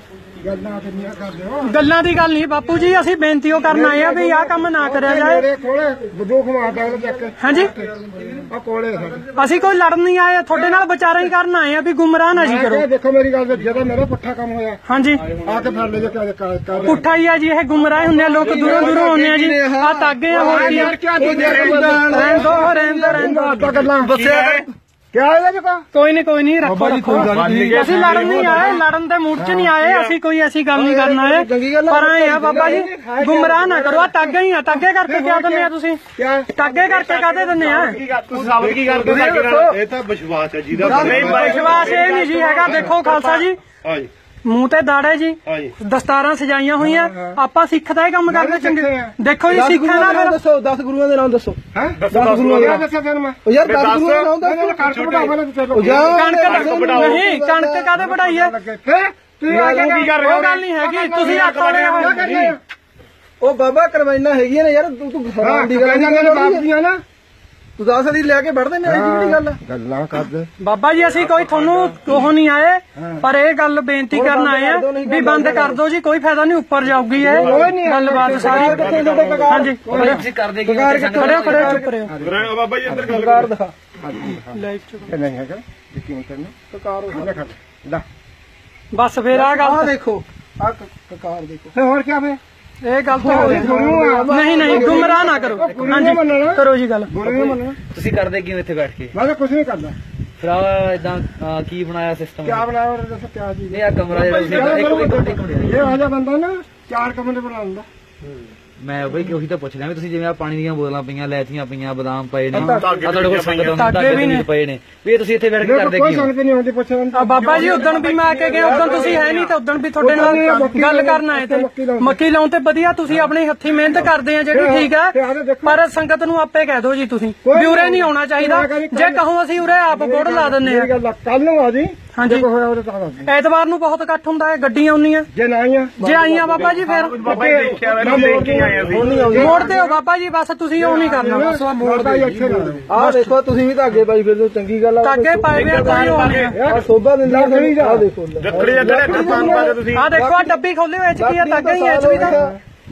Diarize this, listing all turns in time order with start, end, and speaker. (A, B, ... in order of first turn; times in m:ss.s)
0:00.4-0:01.8 A
0:01.6-0:05.5 B
0:03.7-0:04.6 C
0:04.8-0:09.3 A
0:07.4-0:07.7 B
0:09.4-0:12.9 B
0:12.3-0:17.1 A
0:14.9-0:15.2 B
0:16.8-0:21.0 B
0:18.1-0:24.7 C
0:18.5-0:19.0 A
0:20.3-0:24.2 A
0:21.3-0:21.9 D
0:21.9-0:23.7 B
0:23.6-0:24.7 D
0:25.1-0:25.9 A
0:25.9-0:36.0 B
0:26.6-0:28.7 C
0:27.2-0:28.8 D
0:29.4-0:29.9 A
0:30.7-0:32.9 C
0:32.5-0:36.6 A
0:36.6-0:38.0 B
0:36.8-0:44.1 D
0:38.6-0:39.9 C
0:40.7-0:42.0 C
0:40.8-0:41.9 A
0:41.2-0:43.6 B
0:44.4-0:50.4 B
0:45.5-0:45.7 D
0:46.8-0:47.4 A
0:48.3-0:49.2 A
0:49.5-0:51.6 C
0:51.7-0:53.4 A
0:52.0-0:52.8 D
0:52.1-0:52.9 C
0:53.4-0:54.8 C
0:53.6-0:54.3 D
0:54.4-0:56.3 A
0:54.8-0:57.2 D
0:55.7-0:57.9 C
0:56.1-0:58.5 B
0:58.0-1:02.6 A
0:59.5-1:00.2 C
0:59.7-1:02.5 B
0:59.9-1:00.6 D
1:01.2-1:02.6 D
1:03.4-1:06.7 C
1:05.4-1:07.0 A
1:07.8-1:09.6 C
1:08.8-1:10.5 A
1:10.6-1:20.2 B
1:11.4-1:11.8 E
1:13.0-1:13.3 A
1:14.1-1:15.8 C
1:17.2-1:19.6 D
1:17.2-1:17.7 C
1:17.3-1:19.2 A
1:18.4-1:20.0 C
1:19.8-1:21.8 E
1:19.8-1:20.2 A
1:20.6-1:22.0 C
1:21.2-1:22.1 B
1:22.1-1:22.6 A
1:22.2-1:23.5 D
1:22.8-1:23.7 C
1:24.0-1:26.5 A
1:24.5-1:25.1 B
1:26.7-1:27.4 C
1:27.1-1:28.0 A
1:28.9-1:29.9 B
1:29.3-1:31.7 C
1:31.7-1:32.4 A
1:32.8-1:33.7 B
1:33.2-1:35.7 C
1:33.2-1:37.8 A
1:34.3-1:37.1 B
1:35.6-1:36.3 E
1:37.3-1:37.6 C
1:37.9-1:39.2 E
1:39.1-1:40.0 A
1:40.4-1:42.7 E
1:42.4-1:47.9 A
1:43.7-1:45.9 E
1:44.2-1:45.1 D
1:48.8-1:56.3 E
1:52.5-1:53.0 A
1:52.6-1:54.0 D
1:53.7-1:54.5 B
1:55.6-1:58.0 A
1:57.1-2:10.9 B
1:57.5-1:59.5 D
1:58.5-1:59.2 C
1:58.6-1:59.2 A
2:00.0-2:02.2 A
2:03.9-2:05.8 A
2:07.4-2:09.2 A
2:09.8-2:13.3 A
2:12.2-2:12.4 B
2:13.2-2:15.3 B
2:15.3-2:16.0 A
2:16.0-2:17.6 B
2:16.1-2:16.6 C
2:16.5-2:19.5 D
2:17.2-2:20.0 A
2:18.0-2:19.7 C
2:19.3-2:21.6 B
2:20.8-2:22.9 A
2:21.8-2:30.6 C
2:22.9-2:23.4 B
2:25.0-2:26.6 B
2:25.5-2:26.6 D
2:26.4-2:28.1 A
2:28.4-2:30.1 D
2:28.8-2:29.8 A
2:29.9-2:32.4 B
2:31.2-2:32.6 C
2:32.2-2:32.6 A